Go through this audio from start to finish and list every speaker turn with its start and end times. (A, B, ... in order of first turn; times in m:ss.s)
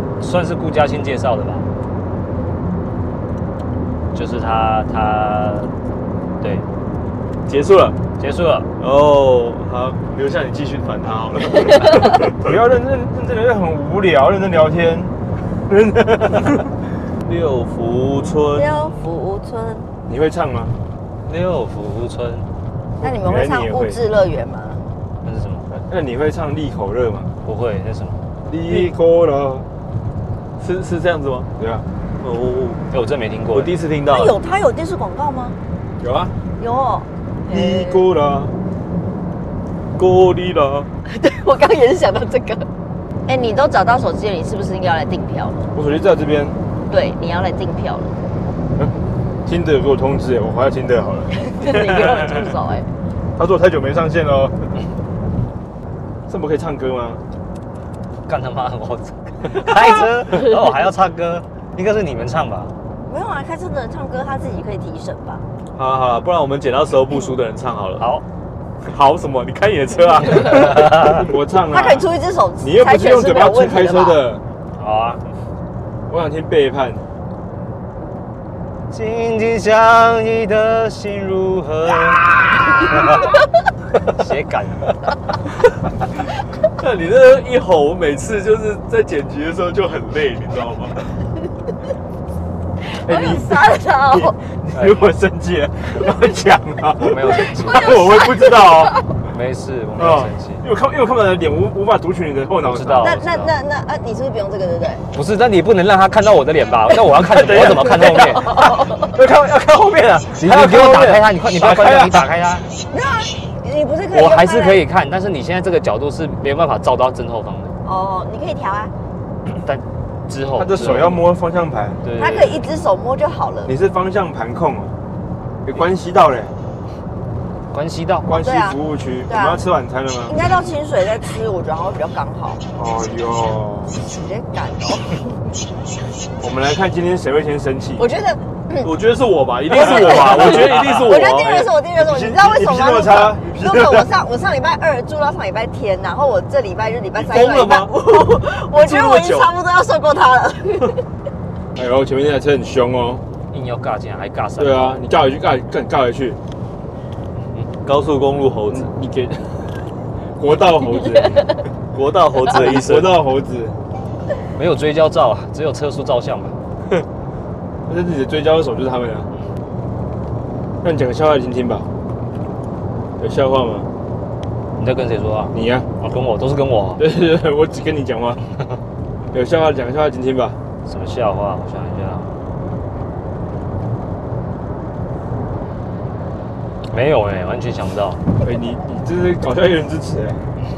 0:00.2-0:01.7 A
0:04.1-0:05.7 A
0:06.4-0:06.6 A
0:07.5-0:08.0 B
0:08.2-0:08.7 A
0:08.8-0:12.4 B
0:12.4-0:15.2 C
0:15.7-0:16.6 C
0:17.2-0:19.0 B
0:18.5-0:19.9 D
0:20.1-0:20.7 C
0:21.2-0:22.5 A
0:23.0-0:24.0 C
0:23.0-0:24.8 D
0:25.2-0:25.7 A
0:25.7-0:27.3 C
0:27.4-0:28.2 A
0:28.4-0:29.6 C
0:30.6-0:31.5 B
0:31.6-0:31.8 C
0:32.2-0:32.8 B
0:32.9-0:33.7 A
0:33.5-0:34.4 B
0:34.1-0:35.6 D
0:36.0-0:36.3 C
0:36.6-0:38.0 D
0:37.5-0:38.5 C
0:40.0-0:40.9 B
0:41.1-0:42.6 D
0:43.2-0:45.6 D
0:45.7-0:46.6 C
0:46.9-0:48.1 D
0:49.4-0:51.3 C
0:51.4-0:52.9 D
0:51.7-0:52.2 B
0:53.4-0:54.8 C
0:56.3-0:57.2 C
0:58.2-1:02.7 A
1:03.1-1:05.4 D
1:05.7-1:08.0 B
1:08.0-1:08.2 A
1:08.8-1:11.0 B
1:10.5-1:11.2 A
1:11.1-1:12.1 C
1:11.7-1:14.2 D
1:12.6-1:14.4 C
1:14.8-1:15.2 A
1:16.1-1:17.0 C
1:18.9-1:23.4 A
1:24.0-1:25.0 A
1:26.7-1:31.1 B
1:32.9-1:34.4 D
1:33.0-1:39.0 C
1:37.0-1:38.0 A
1:37.7-1:39.0 D
1:39.3-1:40.6 A
1:40.0-1:43.2 C
1:42.6-1:43.5 A
1:43.0-1:45.0 D
1:45.1-1:52.7 A
1:47.4-1:47.9 C
1:48.1-1:49.1 D
1:50.4-1:52.3 C
1:52.9-1:54.8 D
1:54.1-1:57.7 A
1:57.8-1:58.9 D
1:59.6-2:01.2 A
2:00.6-2:02.0 C
2:02.0-2:02.7 A
2:02.1-2:03.7 D
2:03.6-2:04.9 C
2:05.6-2:06.5 C
2:07.7-2:08.3 A
2:08.2-2:10.3 C
2:08.3-2:09.6 D
2:10.2-2:12.6 D
2:12.8-2:14.0 C
2:14.0-2:15.4 D
2:16.4-2:18.1 C
2:18.0-2:18.9 D
2:18.8-2:21.7 B
2:19.7-2:31.0 D
2:19.8-2:20.9 C
2:22.0-2:24.1 C
2:27.2-2:29.5 B
2:31.7-2:33.2 C
2:33.5-2:35.1 A
2:34.6-2:36.4 C
2:37.8-2:38.9 B
2:38.7-2:39.7 C
2:40.4-2:41.6 C
2:41.9-2:43.2 B
2:42.5-2:43.8 C
2:44.6-2:46.6 A
2:47.9-2:49.3 C
2:50.8-2:51.9 C
2:53.2-2:53.9 C
2:54.8-2:57.0 A
2:55.5-2:55.9 C
2:57.0-2:58.4 C
2:59.3-3:00.6 C
3:00.8-3:02.3 A
3:06.9-3:08.2 A
3:08.4-3:10.4 C